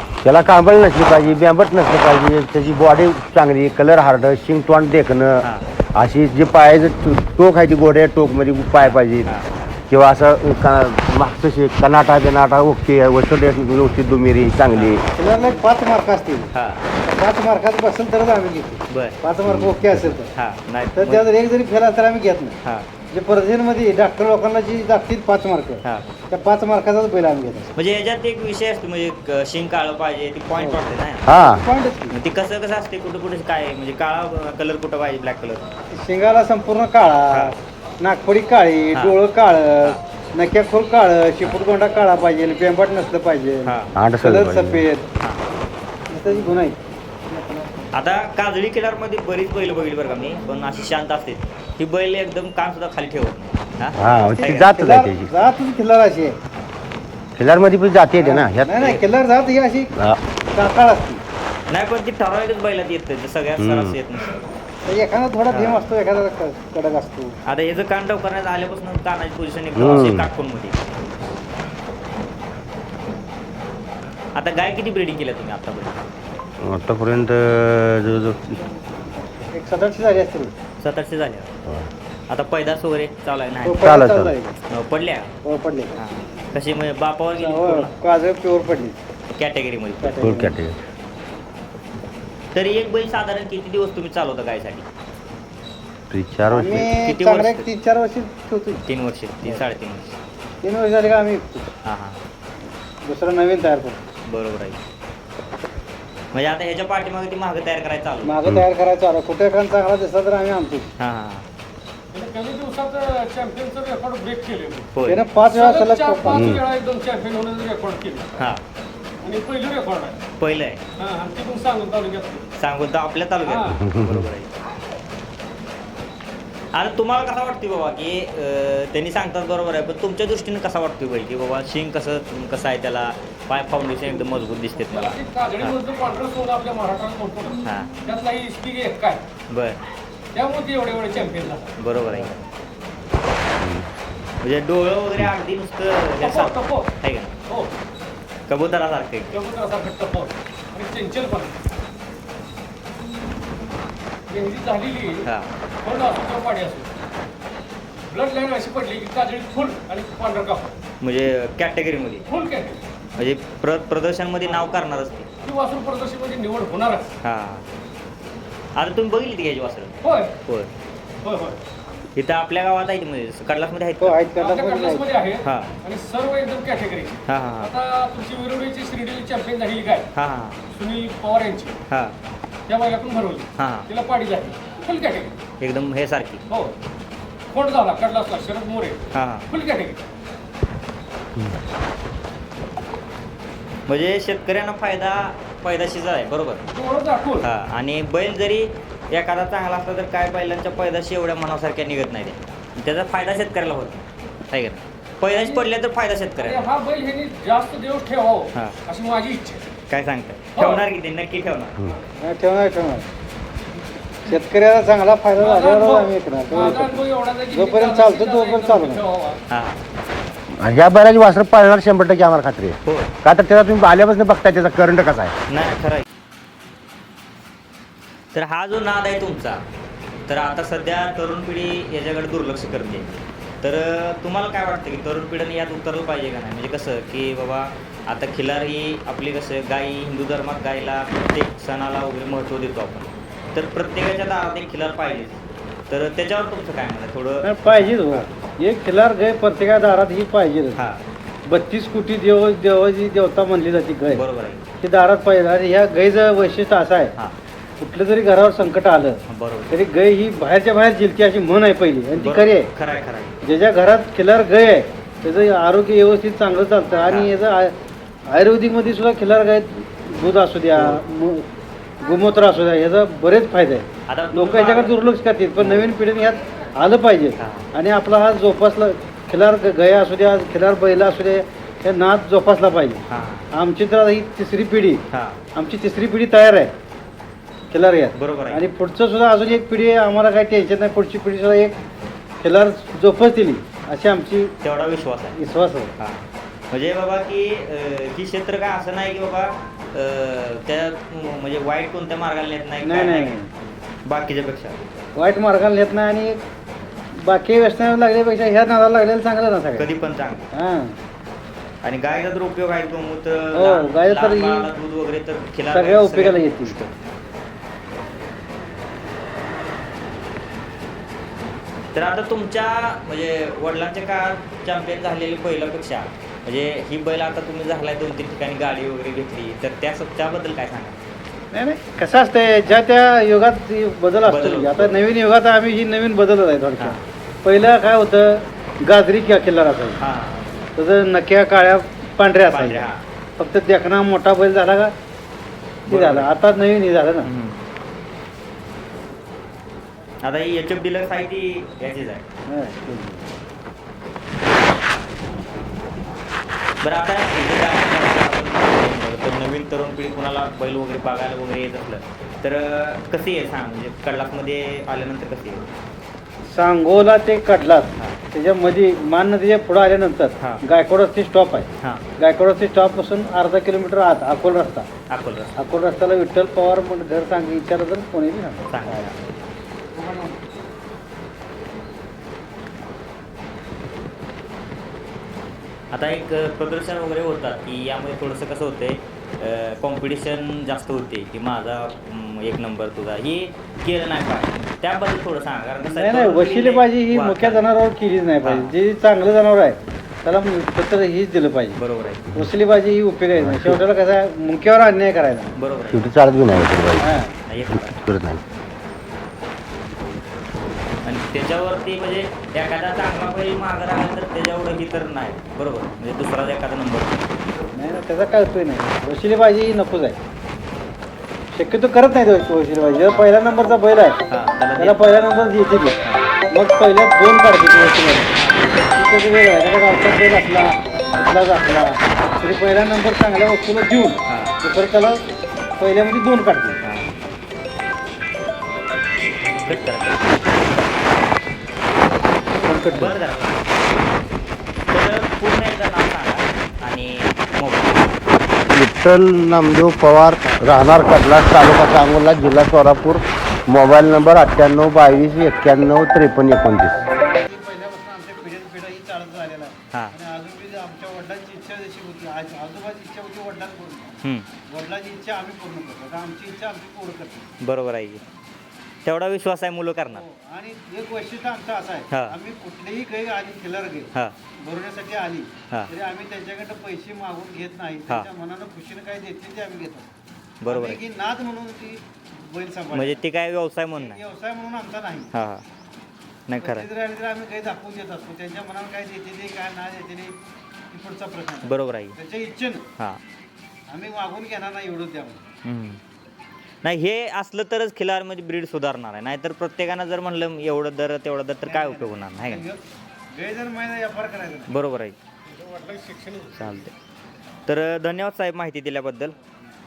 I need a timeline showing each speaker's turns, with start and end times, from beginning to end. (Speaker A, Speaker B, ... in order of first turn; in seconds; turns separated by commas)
Speaker A: 0.2-9.3, Speaker B: 1.2-1.4, Speaker B: 5.4-5.7, Speaker B: 8.8-9.8, Speaker A: 9.9-15.0, Speaker B: 14.7-15.0, Speaker C: 15.1-16.5, Speaker B: 16.5-16.9, Speaker C: 17.0-20.3, Speaker B: 18.9-19.2, Speaker A: 19.4-20.1, Speaker B: 20.3-21.2, Speaker C: 20.9-22.6, Speaker B: 22.6-22.9, Speaker C: 23.1-27.7, Speaker B: 25.8-26.1, Speaker B: 27.7-31.2, Speaker C: 30.5-32.1, Speaker A: 31.2-31.6, Speaker B: 32.1-35.6, Speaker C: 35.9-45.1, Speaker B: 43.6-43.9, Speaker A: 44.0-44.9, Speaker C: 46.1-46.8, Speaker B: 47.9-54.7, Speaker A: 54.0-55.4, Speaker C: 54.0-56.4, Speaker A: 57.4-59.0, Speaker C: 58.1-59.9, Speaker C: 60.5-61.2, Speaker B: 61.7-64.3, Speaker A: 63.6-64.0, Speaker C: 64.8-67.3, Speaker B: 65.5-65.8, Speaker B: 67.5-70.8, Speaker A: 69.7-70.3, Speaker B: 74.3-76.1, Speaker A: 76.6-78.7, Speaker C: 79.5-80.5, Speaker B: 80.8-81.5, Speaker B: 82.3-84.0, Speaker C: 83.6-84.6, Speaker A: 83.8-84.3, Speaker B: 84.7-85.3, Speaker C: 85.4-86.0, Speaker B: 85.9-87.9, Speaker C: 87.4-89.0, Speaker B: 89.3-90.2, Speaker C: 90.0-90.5, Speaker A: 90.2-90.8, Speaker B: 92.5-94.8, Speaker A: 96.1-97.0, Speaker C: 96.5-98.8, Speaker B: 97.0-97.7, Speaker B: 98.8-100.2, Speaker C: 100.6-101.7, Speaker B: 101.8-102.2, Speaker C: 103.0-104.0, Speaker B: 104.3-104.8, Speaker B: 106.3-108.4, Speaker C: 108.2-110.9, Speaker B: 111.0-111.5, Speaker D: 112.1-118.3, Speaker B: 114.9-115.2, Speaker C: 115.0-116.6, Speaker A: 116.3-116.6, Speaker B: 118.4-118.6, Speaker D: 119.2-120.2, Speaker B: 120.4-120.8, Speaker D: 121.0-122.5, Speaker B: 122.5-124.5, Speaker D: 123.5-123.8, Speaker A: 123.7-124.3, Speaker B: 126.7-135.8, Speaker D: 134.9-139.2, Speaker B: 137.6-138.0, Speaker B: 139.5-139.8, Speaker D: 140.3-141.7, Speaker B: 141.8-142.4, Speaker A: 143.6-143.9, Speaker B: 144.4-147.3, Speaker D: 146.2-146.9, Speaker D: 147.5-147.7, Speaker B: 148.5-149.3, Speaker D: 149.3-151.6, Speaker D: 154.3-155.2, Speaker B: 155.2-155.5, Speaker D: 155.8-156.9, Speaker D: 158.1-160.8, Speaker B: 161.0-162.2, Speaker D: 162.3-162.8, Speaker B: 163.2-165.3, Speaker D: 165.4-167.1, Speaker B: 167.2-167.7, Speaker B: 168.7-170.7, Speaker D: 170.0-170.3, Speaker D: 171.2-171.6, Speaker B: 172.2-174.2, Speaker C: 174.0-175.1, Speaker D: 174.3-180.1, Speaker B: 175.4-175.7, Speaker B: 177.3-177.7, Speaker B: 180.1-180.6, Speaker D: 180.7-181.8, Speaker B: 181.9-182.1, Speaker D: 182.7-185.4, Speaker B: 183.6-183.9, Speaker B: 185.6-186.4, Speaker D: 186.5-186.7, Speaker D: 187.5-190.0, Speaker B: 189.1-189.5, Speaker B: 193.9-196.6, Speaker D: 196.7-197.5, Speaker B: 197.4-206.7, Speaker D: 205.3-205.6, Speaker D: 206.4-209.7, Speaker B: 209.9-211.8, Speaker D: 210.6-210.8, Speaker C: 212.2-213.1, Speaker C: 214.2-219.0, Speaker D: 215.4-219.4, Speaker B: 219.5-219.8, Speaker A: 220.5-225.3, Speaker B: 222.8-223.1, Speaker B: 225.5-226.1, Speaker B: 228.3-229.6, Speaker B: 230.3-248.3, Speaker C: 247.4-250.8, Speaker B: 250.7-251.0, Speaker C: 251.5-254.2, Speaker B: 254.1-254.6, Speaker C: 254.8-257.1, Speaker C: 257.8-262.7, Speaker B: 259.3-259.8, Speaker B: 262.1-263.4, Speaker C: 263.4-267.8, Speaker B: 267.1-267.3, Speaker C: 268.3-271.4, Speaker C: 272.0-283.0, Speaker B: 274.1-275.0, Speaker B: 275.6-275.9, Speaker B: 277.4-277.7, Speaker B: 283.1-283.5, Speaker C: 283.5-285.0, Speaker B: 285.1-285.4, Speaker C: 285.5-286.7, Speaker C: 287.7-291.8, Speaker B: 288.1-288.6, Speaker C: 292.4-294.5, Speaker B: 294.6-295.4, Speaker C: 295.3-295.9, Speaker B: 296.0-303.4, Speaker C: 302.8-303.5, Speaker B: 304.0-304.8, Speaker C: 305.1-306.4, Speaker C: 307.2-309.9, Speaker B: 309.7-310.5, Speaker C: 310.5-310.9, Speaker B: 311.8-316.9, Speaker C: 313.5-314.7, Speaker C: 315.7-316.8, Speaker B: 321.9-331.0, Speaker C: 331.5-340.0, Speaker B: 334.2-335.1, Speaker B: 336.8-337.0, Speaker B: 340.0-340.6, Speaker C: 340.8-344.9, Speaker B: 342.5-343.0, Speaker B: 345.9-346.3, Speaker C: 345.9-347.3, Speaker B: 347.2-347.6, Speaker B: 350.2-352.2, Speaker C: 352.5-353.2, Speaker B: 356.8-365.7, Speaker C: 366.5-371.7, Speaker B: 371.8-372.1, Speaker C: 372.2-374.9, Speaker B: 375.1-375.5, Speaker C: 375.6-379.1, Speaker B: 378.7-379.2, Speaker D: 380.0-380.3, Speaker B: 385.9-397.6, Speaker C: 395.8-401.8, Speaker B: 398.4-398.8, Speaker B: 401.8-402.4, Speaker C: 402.3-405.5, Speaker A: 403.4-403.8, Speaker B: 405.5-406.1, Speaker A: 405.9-407.1, Speaker C: 407.0-407.3, Speaker B: 407.4-408.0, Speaker A: 407.7-408.4, Speaker B: 411.0-417.2, Speaker C: 417.7-420.2, Speaker C: 421.5-424.2, Speaker B: 424.3-425.0, Speaker C: 424.8-425.9, Speaker C: 426.5-428.3, Speaker B: 428.4-428.8, Speaker C: 428.9-435.2, Speaker B: 434.2-434.5, Speaker C: 435.8-436.8, Speaker B: 436.8-437.1, Speaker B: 439.5-440.6, Speaker C: 442.6-443.1, Speaker B: 442.8-443.7, Speaker B: 444.9-448.2, Speaker A: 448.7-457.0, Speaker C: 457.4-464.2, Speaker B: 464.2-464.5, Speaker C: 464.7-467.5, Speaker B: 467.6-468.2, Speaker B: 469.0-470.2, Speaker C: 470.1-474.1, Speaker B: 472.1-472.4, Speaker C: 474.6-480.1, Speaker B: 480.6-481.0, Speaker C: 480.7-483.2, Speaker B: 482.9-484.2, Speaker C: 483.9-485.3, Speaker B: 485.3-485.6, Speaker B: 486.5-486.9, Speaker C: 486.6-490.3, Speaker C: 490.9-492.8, Speaker B: 491.6-492.1, Speaker C: 493.9-495.4, Speaker B: 495.6-496.0, Speaker B: 496.8-502.6, Speaker C: 501.6-502.8, Speaker C: 503.3-504.7, Speaker B: 504.7-505.1, Speaker D: 505.5-506.6, Speaker B: 506.5-506.9, Speaker B: 507.7-509.3